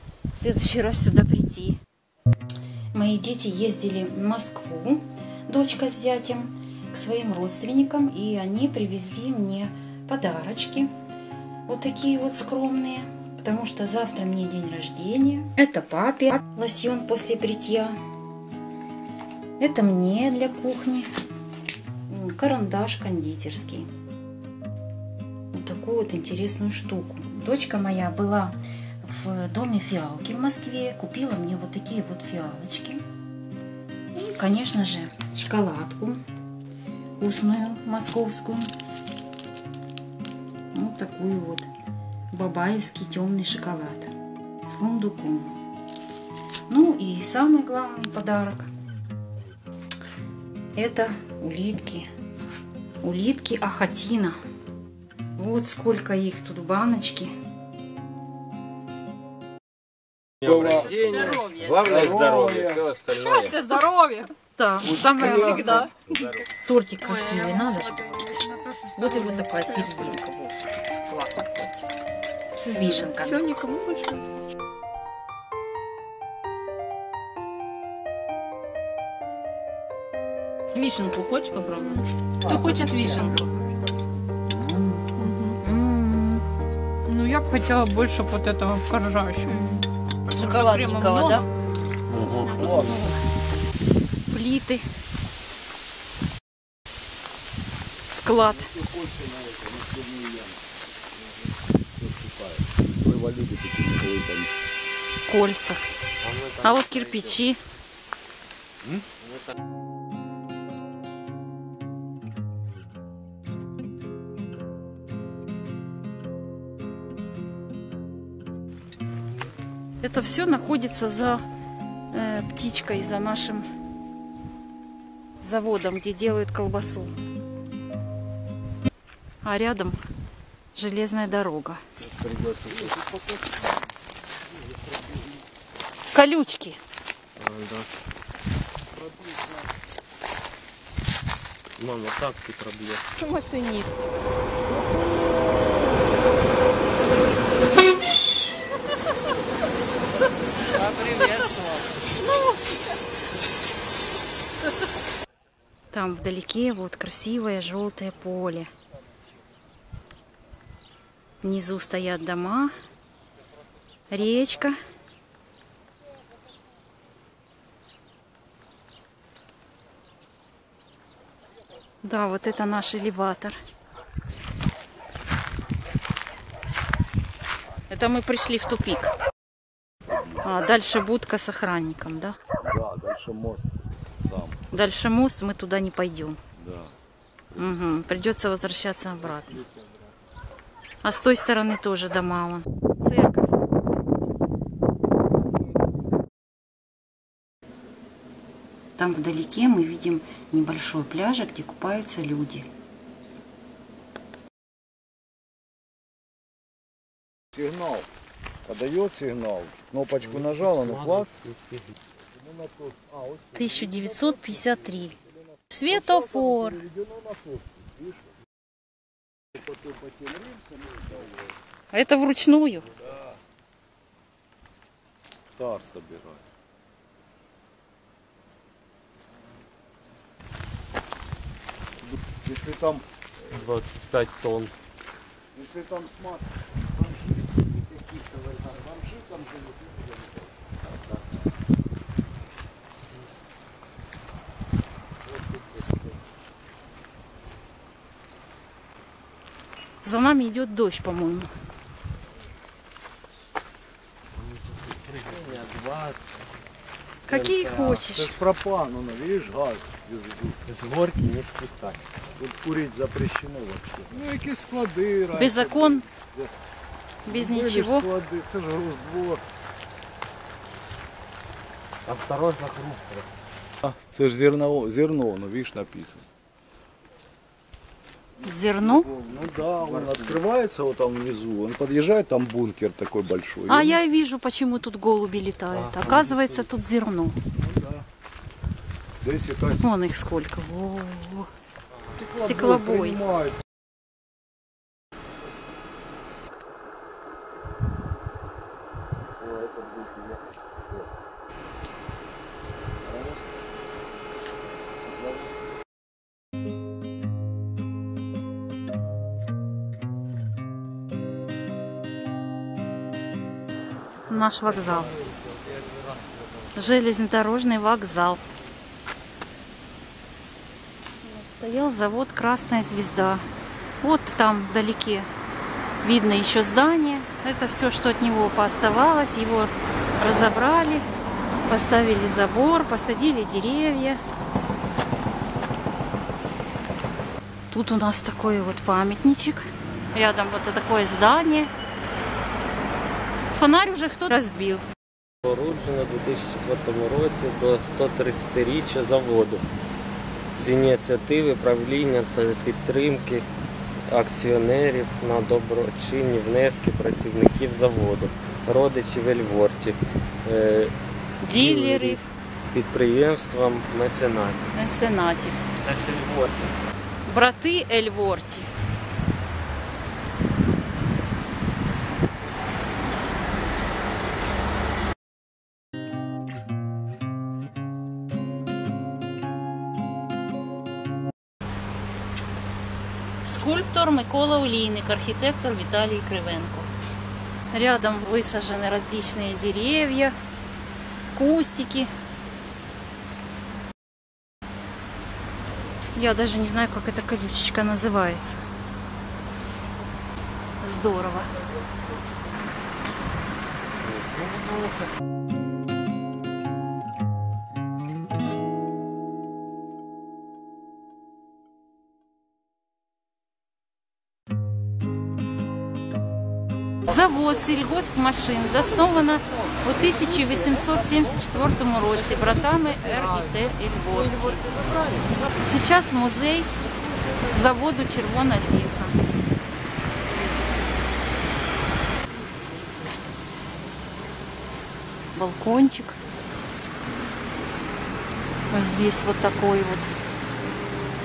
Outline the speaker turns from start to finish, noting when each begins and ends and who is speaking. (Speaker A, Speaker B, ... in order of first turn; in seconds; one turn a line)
Speaker A: 0.4-1.8
Speaker A: 2.9-10.9
Speaker A: 11.7-18.0
Speaker A: 19.6-21.1
Speaker A: 22.1-23.9
Speaker A: 25.5-33.0
Speaker A: 34.2-36.2
Speaker A: 37.2-38.7
Speaker A: 40.7-41.7
Speaker A: 42.3-45.5
Speaker A: 46.7-48.7
Speaker A: 50.8-52.1
Speaker A: 53.0-54.4
Speaker A: 55.4-57.3
Speaker B: 60.4-61.1
Speaker C: 60.4-63.6
Speaker D: 60.9-61.8
Speaker B: 61.8-62.9
Speaker D: 63.1-64.3
Speaker A: 64.5-65.9
Speaker B: 64.9-65.8
Speaker D: 64.9-66.3
Speaker C: 66.1-66.4
Speaker A: 66.5-71.8
Speaker D: 67.0-70.1
Speaker A: 72.6-73.5
Speaker D: 72.6-74.3
Speaker A: 80.7-83.4
Speaker D: 82.4-83.4
Speaker A: 84.7-85.0
Speaker D: 85.2-85.6
Speaker A: 85.6-86.4
Speaker D: 87.1-89.8
Speaker A: 89.5-89.8
Speaker A: 90.3-91.5
Speaker D: 90.3-91.5
Speaker C: 92.1-92.5
Speaker B: 92.3-93.1
Speaker D: 92.4-93.1
Speaker A: 92.5-93.1
Speaker A: 94.3-94.9
Speaker A: 98.1-98.7
Speaker B: 98.5-100.6
Speaker B: 102.0-104.5
Speaker A: 105.3-105.9
Speaker C: 106.2-107.4
Speaker A: 106.6-107.6
Speaker C: 108.9-109.2
Speaker A: 120.0-121.4
Speaker A: 122.1-123.7
Speaker A: 125.4-127.2
Speaker A: 129.4-130.0
Speaker A: 130.8-131.8
Speaker C: 132.0-133.0
Speaker B: 132.7-133.7
Speaker B: 134.6-135.4
Speaker A: 136.1-136.8
Speaker C: 137.4-137.9
Speaker B: 139.0-139.7
Speaker C: 141.8-143.1
Speaker A: 143.3-144.0
Speaker D: 143.3-143.9
Speaker C: 150.8-151.8
Speaker A: 155.9-158.7
Speaker A: 161.4-162.7
Speaker A: 164.1-164.8
Speaker A: 172.0-173.6
Speaker A: 177.9-179.1
Speaker B: 180.1-180.5
Speaker A: 180.4-182.4
Speaker B: 182.6-184.6
Speaker A: 184.7-186.4
Speaker B: 186.6-186.9
Speaker A: 187.6-189.6
Speaker A: 191.0-193.6
Speaker A: 199.0-202.7
Speaker B: 207.5-208.1
Speaker B: 208.7-211.3
Speaker C: 210.2-211.9
Speaker B: 212.4-214.8
Speaker A: 213.5-215.2
Speaker A: 215.7-216.8
Speaker B: 215.9-218.2
Speaker B: 219.5-221.5
Speaker A: 221.9-222.9
Speaker B: 225.6-226.4
Speaker B: 232.0-233.1
Speaker C: 233.5-234.7
Speaker B: 235.5-240.9
Speaker A: 250.0-251.5
Speaker C: 254.3-256.2
Speaker A: 257.3-258.3
Speaker C: 257.3-258.1
Speaker B: 258.0-260.6
Speaker C: 260.7-262.0
Speaker B: 262.3-266.5
Speaker A: 265.3-266.1
Speaker B: 267.2-269.4
Speaker A: 267.3-268.1
Speaker C: 272.1-273.3
Speaker B: 273.8-276.2
Speaker A: 278.4-279.1
Speaker B: 278.8-284.0
Speaker C: 279.8-280.4
Speaker A: 283.7-287.4
Speaker C: 285.7-286.6
Speaker B: 287.6-288.1
Speaker B: 289.2-289.8
Speaker A: 289.8-291.5
Speaker B: 292.1-293.6
Speaker A: 292.4-293.2
Speaker C: 299.4-300.4
Speaker B: 299.5-300.1
Speaker B: 303.0-303.5
Speaker B: 305.1-305.6
Speaker A: 314.3-315.2
Speaker C: 314.7-316.7
Speaker A: 316.7-318.4
Speaker A: 321.2-323.4
Speaker A: 324.0-325.3
Speaker A: 326.0-331.1
Speaker A: 331.7-334.2
Speaker A: 337.7-341.7
Speaker A: 343.5-344.8
Speaker C: 345.4-349.7
Speaker C: 350.6-353.5
Speaker C: 354.1-360.9
Speaker A: 361.4-362.2
Speaker C: 361.5-364.7
Speaker A: 364.7-365.6
Speaker C: 365.8-366.7
Speaker A: 367.3-368.7
Speaker A: 383.4-386.9
Speaker A: 387.7-390.4
Speaker A: 391.3-392.1
Speaker A: 396.1-398.6
Speaker A: 400.8-401.5
Speaker C: 404.0-405.1
Speaker A: 417.1-424.6
Speaker C: 422.3-423.5
Speaker C: 424.1-425.5
Speaker A: 425.6-426.7
Speaker A: 427.4-429.2
Speaker A: 435.3-436.2
Speaker A: 438.7-440.1